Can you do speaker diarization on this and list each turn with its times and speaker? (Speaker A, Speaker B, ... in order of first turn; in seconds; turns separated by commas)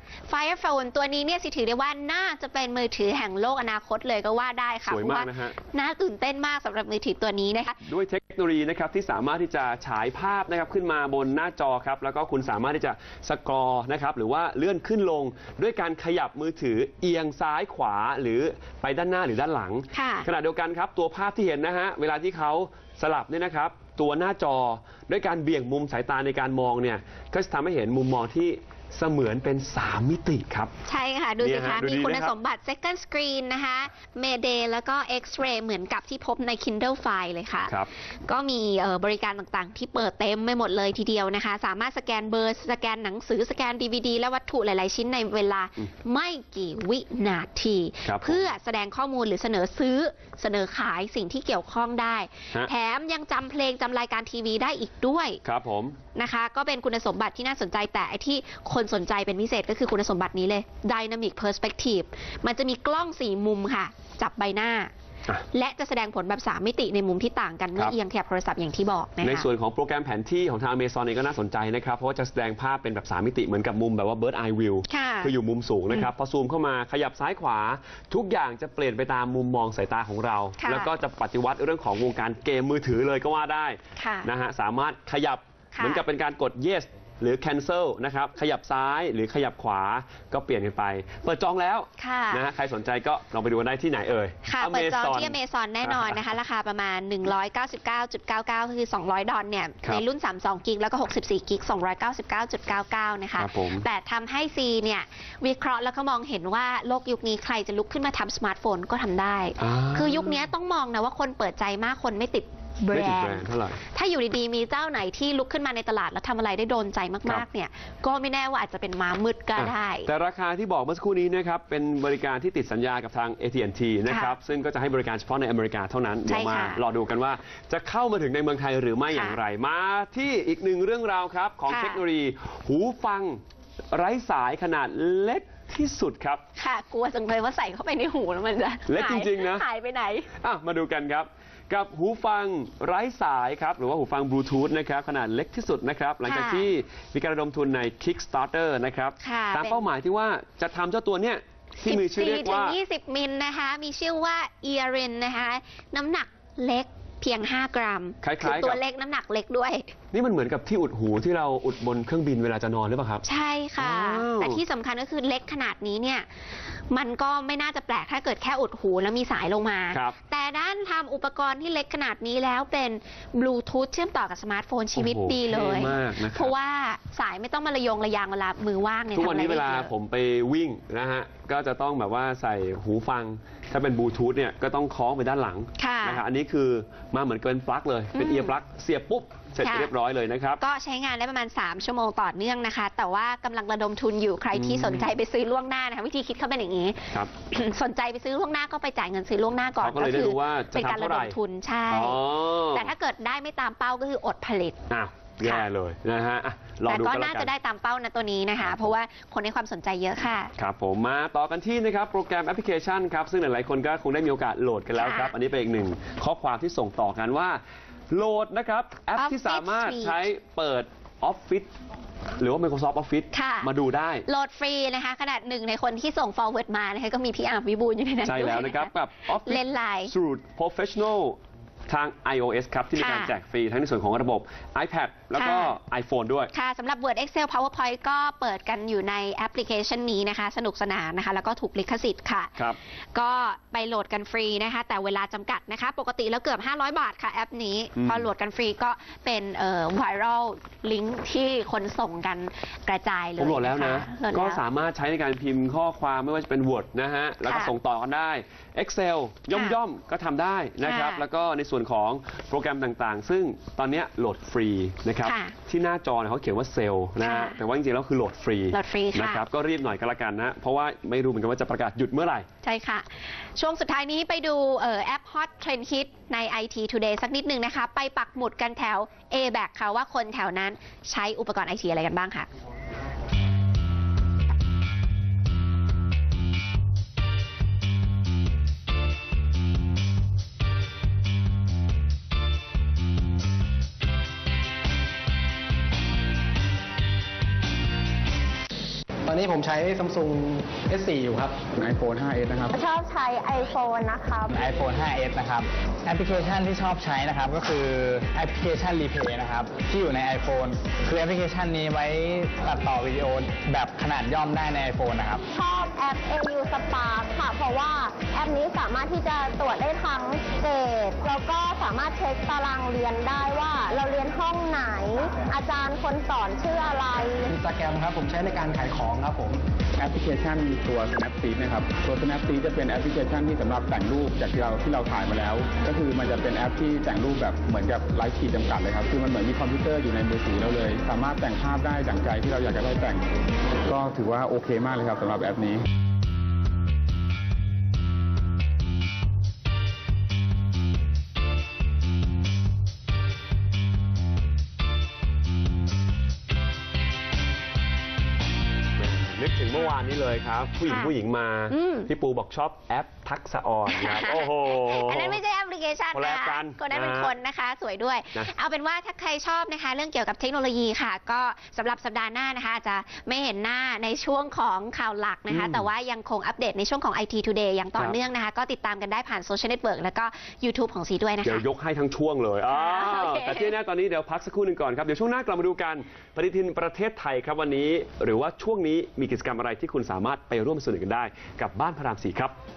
Speaker A: 0.3-7.8, Speaker B: 4.9-5.6, Speaker B: 7.9-30.7, Speaker A: 19.9-20.3, Speaker A: 30.9-55.4, Speaker B: 31.4-32.3, Speaker B: 48.0-48.5, Speaker B: 55.4-56.0, Speaker A: 56.1-64.9, Speaker A: 65.5-69.5, Speaker B: 69.2-96.3, Speaker A: 74.9-75.3, Speaker A: 80.6-80.9, Speaker A: 84.0-84.3, Speaker A: 85.7-86.0, Speaker A: 92.0-92.4, Speaker A: 94.5-120.1, Speaker B: 103.4-103.9, Speaker B: 109.6-110.5, Speaker B: 112.9-113.8, Speaker B: 119.6-136.4, Speaker A: 124.1-124.4, Speaker A: 126.3-126.8, Speaker A: 129.1-129.4, Speaker A: 131.7-132.0, Speaker A: 136.6-140.3, Speaker B: 138.9-139.7, Speaker B: 140.4-152.8, Speaker A: 146.2-146.7, Speaker A: 149.2-149.8, Speaker A: 151.8-159.9, Speaker B: 158.2-158.8, Speaker B: 160.1-163.2, Speaker A: 163.2-179.9, Speaker B: 163.8-164.6, Speaker B: 175.0-176.6, Speaker B: 179.1-190.6, Speaker A: 185.8-186.2, Speaker A: 188.1-188.6, Speaker A: 189.6-189.9, Speaker A: 190.6-204.8, Speaker B: 194.5-195.1, Speaker B: 199.8-201.4, Speaker B: 201.9-202.9, Speaker B: 204.9-207.5, Speaker A: 205.4-205.7, Speaker A: 206.8-210.5, Speaker B: 208.6-208.9, Speaker B: 210.6-217.6, Speaker A: 214.9-215.3, Speaker B: 218.1-221.7, Speaker A: 219.2-220.2, Speaker B: 222.4-224.2, Speaker A: 223.3-223.7, Speaker A: 224.3-230.1, Speaker B: 228.2-236.5, Speaker A: 232.9-233.3, Speaker A: 235.3-235.8, Speaker A: 236.5-242.6, Speaker A: 243.1-254.6, Speaker B: 248.0-248.3, Speaker B: 253.4-272.5, Speaker A: 257.4-257.7, Speaker A: 259.5-259.8, Speaker A: 260.8-261.2, Speaker A: 265.2-265.6, Speaker A: 267.2-267.6, Speaker A: 268.7-269.4, Speaker A: 272.6-282.5, Speaker C: 299.3-301.6, Speaker D: 301.8-302.7, Speaker E: 302.8-304.5, Speaker F: 304.5-315.5, Speaker E: 315.5-327.5, Speaker C: 327.5-329.6, Speaker D: 330.0-343.2, Speaker D: 343.9-345.9, Speaker B: 359.0-365.4, Speaker A: 360.8-361.1, Speaker A: 361.7-362.1, Speaker A: 363.9-381.7, Speaker B: 366.1-367.4, Speaker B: 375.5-375.9, Speaker B: 381.4-392.6, Speaker A: 382.7-383.8